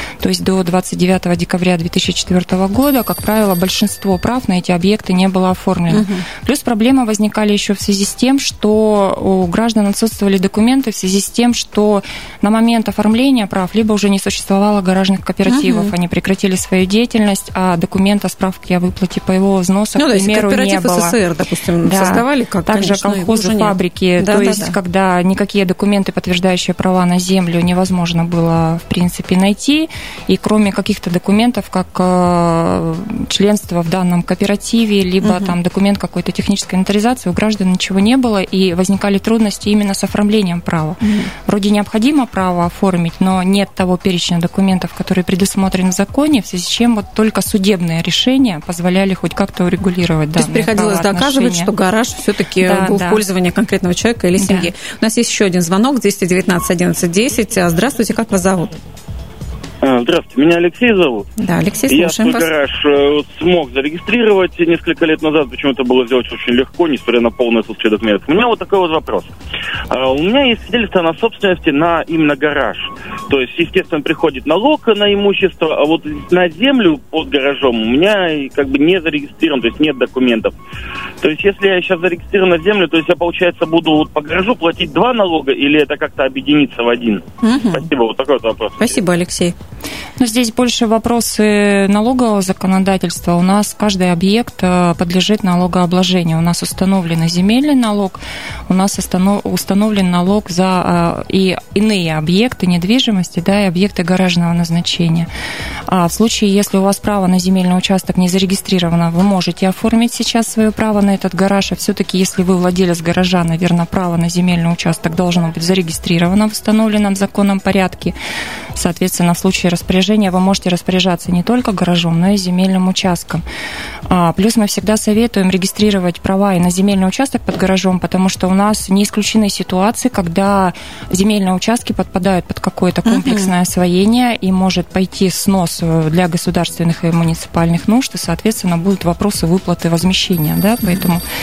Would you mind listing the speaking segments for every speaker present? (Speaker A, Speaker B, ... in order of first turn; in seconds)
Speaker A: 0.2-21.1, 21.8-51.7, 52.6-53.2, 54.4-54.7, 90.2-105.3, 105.9-118.1, 118.8-123.4, 124.1-141.2
Speaker B: 5.9-6.2, 15.4-15.9, 20.0-24.7, 35.2-35.5, 41.0-41.3, 50.4-58.8, 61.4-62.5, 87.4-87.9, 88.8-89.5, 133.0-133.5
Speaker C: 59.8-61.3, 61.9-69.3, 69.9-80.5, 81.2-89.0